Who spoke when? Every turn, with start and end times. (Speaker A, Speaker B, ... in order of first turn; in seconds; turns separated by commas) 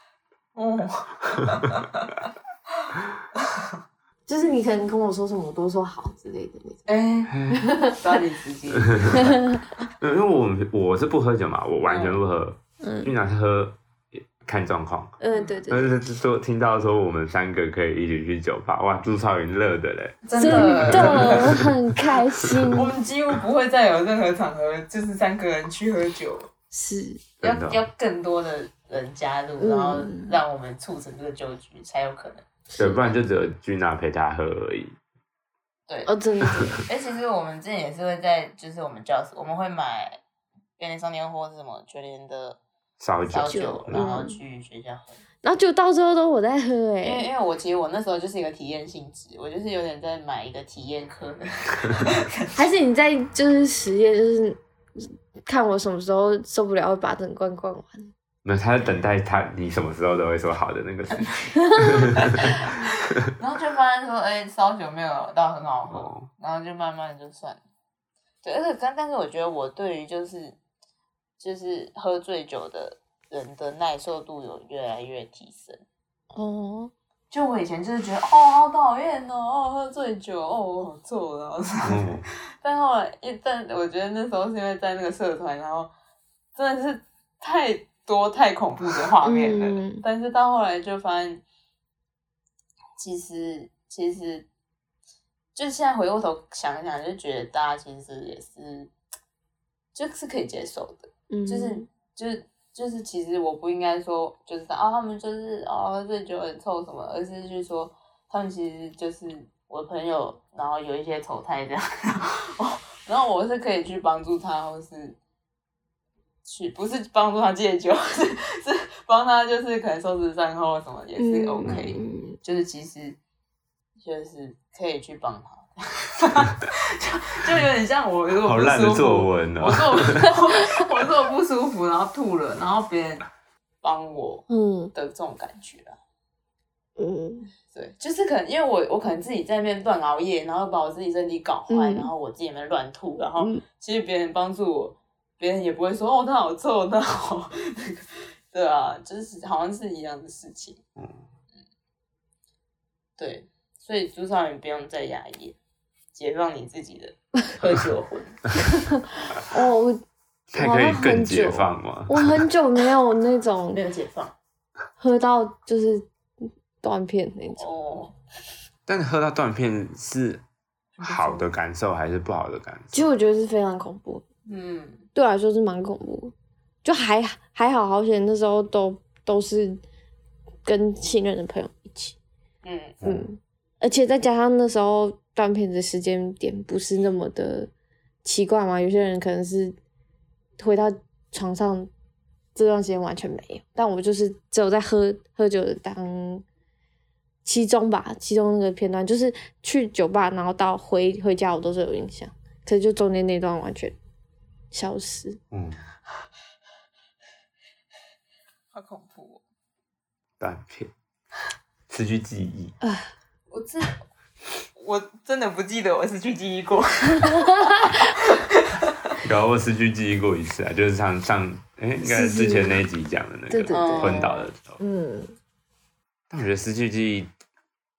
Speaker A: 0.5-2.1, Speaker A: 2.9-3.7, Speaker B: 4.3-6.8, Speaker A: 6.9-9.3, Speaker C: 7.3-7.7, Speaker B: 7.5-8.0, Speaker C: 8.7-9.4, Speaker B: 9.2-9.6, Speaker C: 10.0-22.8, Speaker A: 11.8-12.2, Speaker B: 12.8-13.1, Speaker B: 15.2-15.9, Speaker A: 20.2-21.6, Speaker B: 20.4-22.9, Speaker A: 22.7-26.5, Speaker B: 26.7-27.2, Speaker C: 27.4-27.8, Speaker A: 27.4-32.4, Speaker B: 29.6-30.4, Speaker B: 32.7-33.1, Speaker C: 32.8-34.9, Speaker B: 36.0-36.9, Speaker A: 36.7-40.2, Speaker A: 40.8-42.6, Speaker C: 43.0-44.0, Speaker A: 43.3-45.2, Speaker B: 43.5-44.4, Speaker B: 45.4-47.2, Speaker A: 47.0-52.5, Speaker B: 52.5-58.1, Speaker C: 58.4-62.6, Speaker A: 62.4-67.6, Speaker C: 65.9-66.3, Speaker A: 68.4-70.6, Speaker A: 71.4-75.8, Speaker B: 76.3-76.9, Speaker A: 77.3-85.9, Speaker C: 81.8-82.2, Speaker A: 86.5-91.4, Speaker B: 89.2-90.0, Speaker A: 93.0-94.5, Speaker A: 95.5-98.9, Speaker A: 99.9-115.2, Speaker B: 101.3-101.9, Speaker A: 116.4-123.2, Speaker B: 121.2-122.4, Speaker C: 121.6-121.9, Speaker A: 124.0-133.2, Speaker C: 128.4-130.3, Speaker A: 133.8-136.0, Speaker B: 134.5-134.9, Speaker B: 137.0-137.5, Speaker A: 137.7-150.8, Speaker B: 141.7-142.1, Speaker C: 151.0-151.2, Speaker A: 153.2-155.6, Speaker A: 156.1-158.5, Speaker B: 158.7-160.0, Speaker C: 160.5-162.4, Speaker B: 160.5-163.8, Speaker A: 163.7-164.3, Speaker B: 165.0-166.1, Speaker B: 166.8-167.6, Speaker A: 167.6-168.1, Speaker C: 168.9-170.4, Speaker A: 171.0-171.5, Speaker C: 171.0-173.1, Speaker B: 172.9-174.2, Speaker A: 174.4-175.1, Speaker B: 175.1-179.8, Speaker B: 180.6-182.2, Speaker A: 182.6-183.0, Speaker B: 183.0-187.7, Speaker B: 188.2-189.8, Speaker B: 190.6-191.9, Speaker B: 192.5-196.4, Speaker B: 197.4-203.9, Speaker B: 204.7-205.4, Speaker C: 205.5-205.8, Speaker A: 208.7-209.4, Speaker C: 210.4-210.9, Speaker C: 211.9-212.7, Speaker B: 212.8-213.1, Speaker A: 213.5-214.0, Speaker A: 214.8-218.9, Speaker B: 217.2-218.1, Speaker C: 219.2-224.8, Speaker B: 222.0-222.8, Speaker B: 223.5-225.3, Speaker A: 223.7-224.3, Speaker C: 226.3-227.3